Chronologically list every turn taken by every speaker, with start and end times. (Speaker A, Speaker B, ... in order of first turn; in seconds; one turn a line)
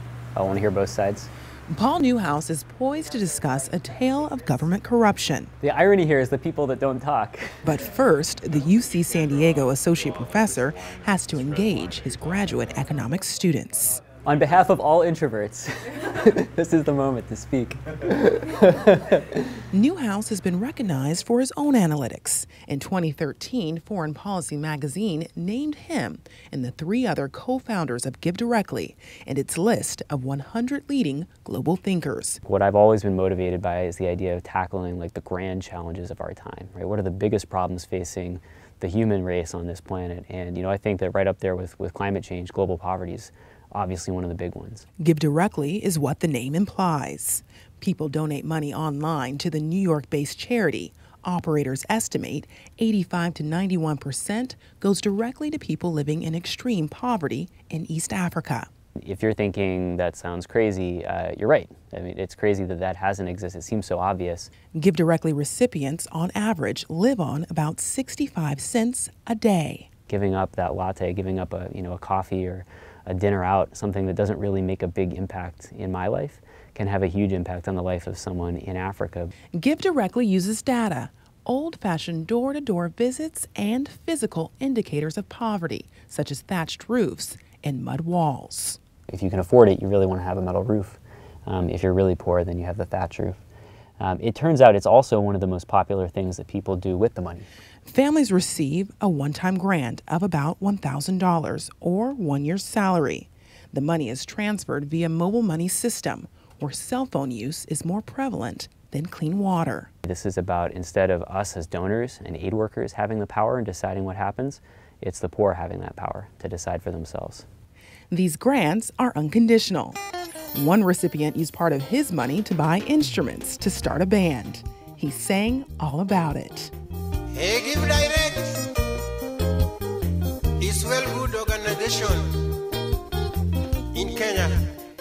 Speaker A: 0.3-1.3
Speaker B: 1.7-5.5
Speaker A: 5.6-7.6
Speaker B: 7.6-14.0
Speaker A: 14.2-19.4
Speaker B: 19.7-32.4
Speaker A: 32.4-44.9
Speaker B: 45.0-58.7
Speaker A: 59.0-64.5
Speaker B: 64.7-69.9
Speaker A: 70.1-79.3
Speaker B: 79.5-88.8
Speaker A: 89.1-93.4
Speaker A: 94.0-97.5
Speaker B: 97.8-109.9
Speaker A: 110.0-117.5
Speaker B: 118.1-120.0
Speaker B: 120.5-126.7
Speaker C: 127.3-128.7
Speaker C: 130.6-132.4
Speaker C: 133.9-134.6